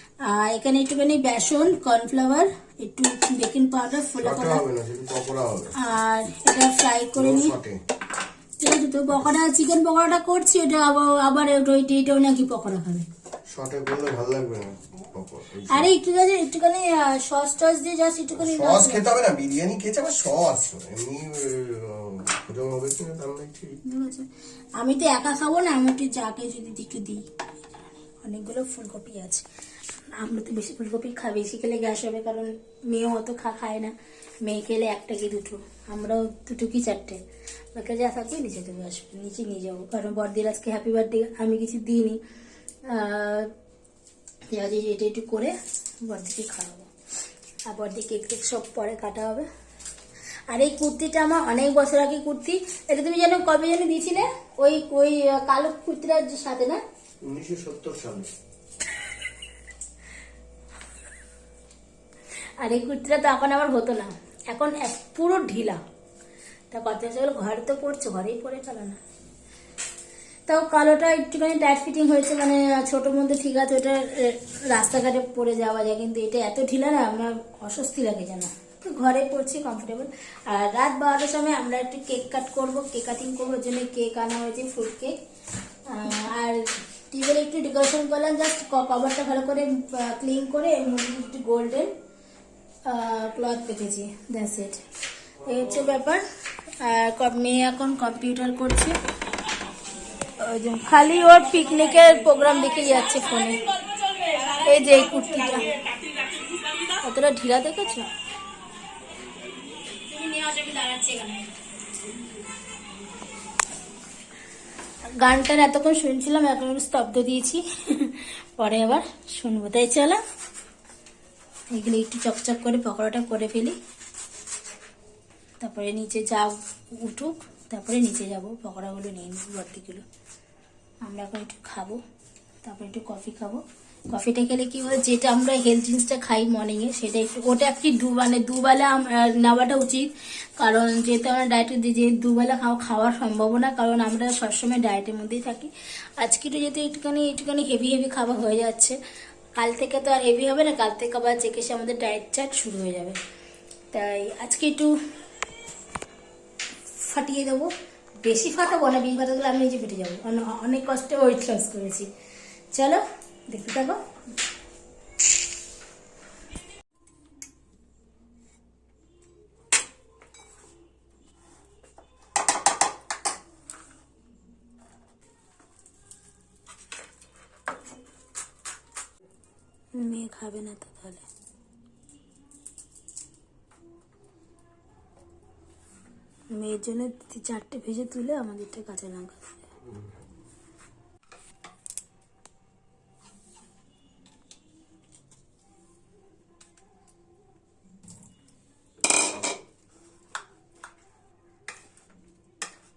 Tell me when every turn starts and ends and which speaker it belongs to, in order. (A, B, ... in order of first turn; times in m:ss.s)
0:00.3-0:04.6 A
0:04.2-0:05.7 B
0:05.8-0:07.6 A
0:07.2-0:07.8 B
0:08.6-0:13.1 A
0:13.5-0:15.9 B
0:15.7-0:19.1 A
0:18.4-0:23.8 B
0:23.9-0:24.3 A
0:24.8-0:27.2 A
0:28.2-0:29.5 A
0:30.2-0:33.9 A
0:34.4-0:37.2 A
0:37.8-0:42.2 A
0:42.9-0:43.5 A
0:44.5-0:46.9 A
0:47.7-0:49.5 A
0:50.5-0:56.8 A
0:57.3-0:58.3 B
1:02.6-1:05.8 A
1:06.7-1:09.0 A
1:10.5-1:25.2 A
1:25.9-1:26.6 A
1:27.1-1:31.9 A
1:32.9-1:34.8 A
1:35.4-1:36.2 A
1:36.8-1:39.0 A
1:40.4-1:45.8 A
1:46.8-1:48.1 A
1:50.1-1:51.6 A
1:55.2-2:00.2 A
2:01.7-2:03.8 A
2:05.6-2:10.0 A
2:11.0-2:12.0 A
2:12.6-2:29.0 A
2:29.6-2:33.2 A
2:33.9-2:35.0 A
2:37.0-2:37.7 A
2:38.2-2:42.1 A
2:42.8-2:44.0 A
3:00.0-3:01.2 A
3:06.5-3:09.6 A
3:09.9-3:10.1 B